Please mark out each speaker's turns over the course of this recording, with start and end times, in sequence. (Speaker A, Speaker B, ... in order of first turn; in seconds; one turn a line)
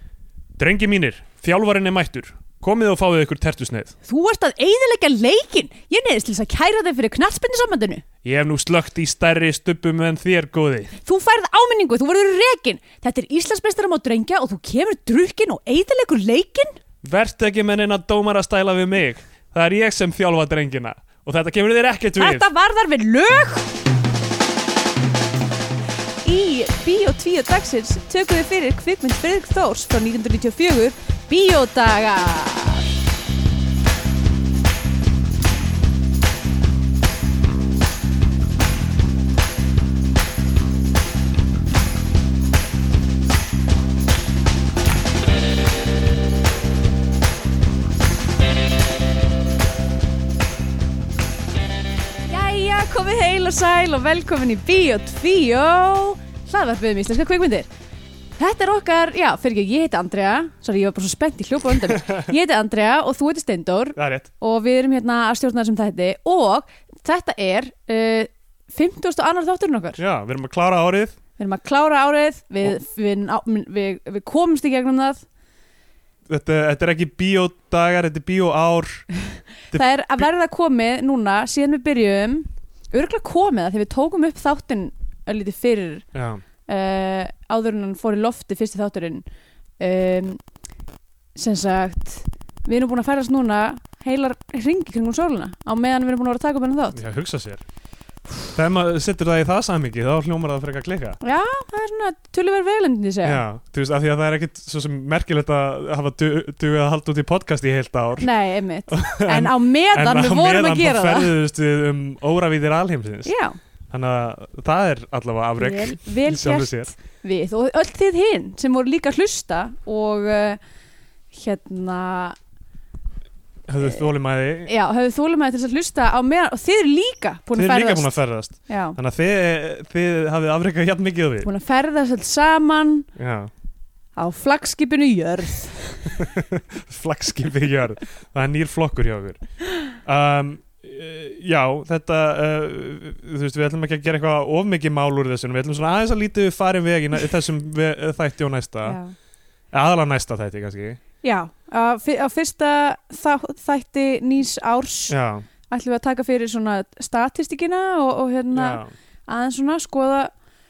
Speaker A: 0.6-3.9
Speaker B: 4.1-8.0
Speaker A: 8.2-10.9
Speaker B: 11.0-16.8
Speaker A: 17.0-22.4
Speaker B: 22.2-23.7
Speaker B: 26.2-32.9
Speaker B: 52.3-57.7
Speaker B: 58.4-70.0
Speaker A: 61.9-62.2
Speaker A: 64.0-64.3
Speaker A: 70.0-71.2
Speaker B: 71.4-75.2
Speaker A: 76.3-79.0
Speaker B: 79.3-86.0
Speaker A: 79.7-80.2
Speaker A: 86.1-86.4
Speaker B: 86.7-89.2
Speaker B: 89.8-90.4
Speaker B: 91.3-97.0
Speaker A: 96.9-97.6
Speaker A: 98.5-101.2
Speaker B: 101.2-103.4
Speaker A: 103.2-108.3
Speaker B: 108.2-111.3
Speaker A: 108.9-113.3
Speaker B: 113.2-113.6
Speaker A: 113.9-116.9
Speaker B: 115.6-120.6
Speaker B: 121.3-122.3
Speaker A: 123.7-124.7
Speaker B: 124.7-128.1
Speaker A: 127.5-131.5
Speaker B: 128.7-129.0
Speaker B: 131.4-133.1
Speaker A: 133.2-133.5
Speaker B: 134.2-136.2
Speaker A: 136.2-139.4
Speaker A: 139.9-149.0
Speaker B: 148.8-149.1
Speaker A: 149.7-151.0
Speaker B: 151.2-155.2
Speaker A: 155.1-155.4
Speaker B: 155.7-160.3
Speaker A: 158.5-158.9